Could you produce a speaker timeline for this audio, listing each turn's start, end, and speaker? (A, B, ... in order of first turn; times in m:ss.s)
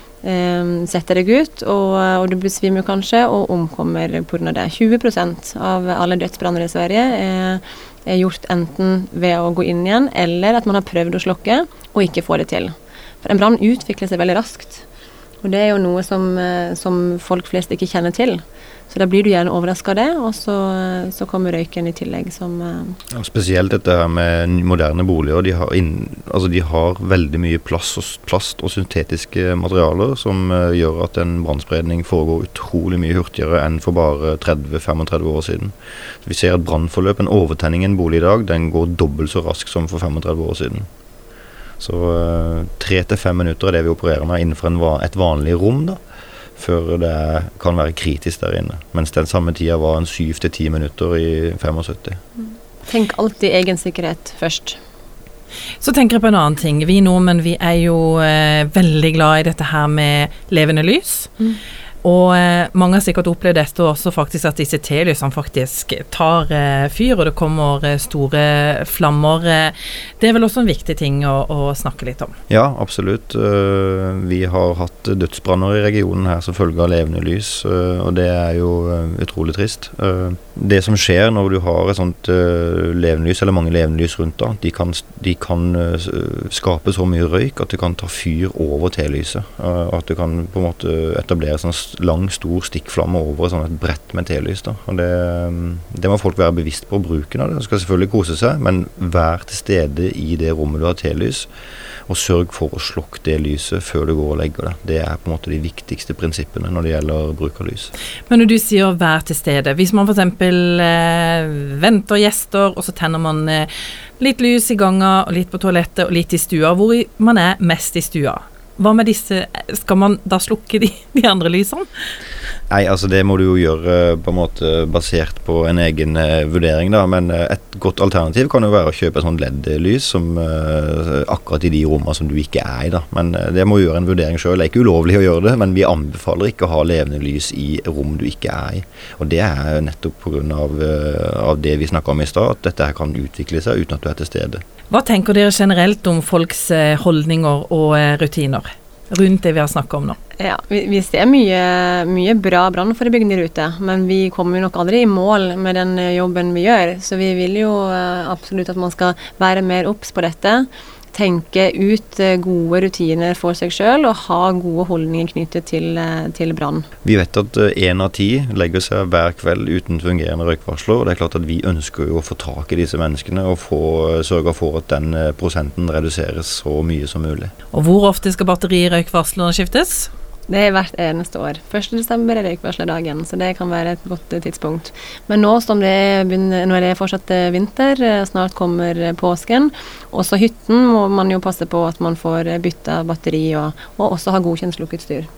0:00.2-0:14.8 A
0:15.4-0:23.0 A
0:23.1-0:35.7 B
0:36.2-0:40.9 B
0:41.8-0:46.0 B
0:46.6-0:52.2 B
0:52.4-0:54.8 A
0:55.8-1:01.3 C
1:02.0-1:12.3 C
1:12.5-1:41.5 B
1:42.1-1:47.9 B
1:48.3-2:01.9 C
2:02.7-2:24.6 B
2:24.9-2:30.2 C
2:30.4-2:46.9 A
2:47.0-2:57.5 B
2:57.7-3:00.1 C
3:00.5-3:15.3 A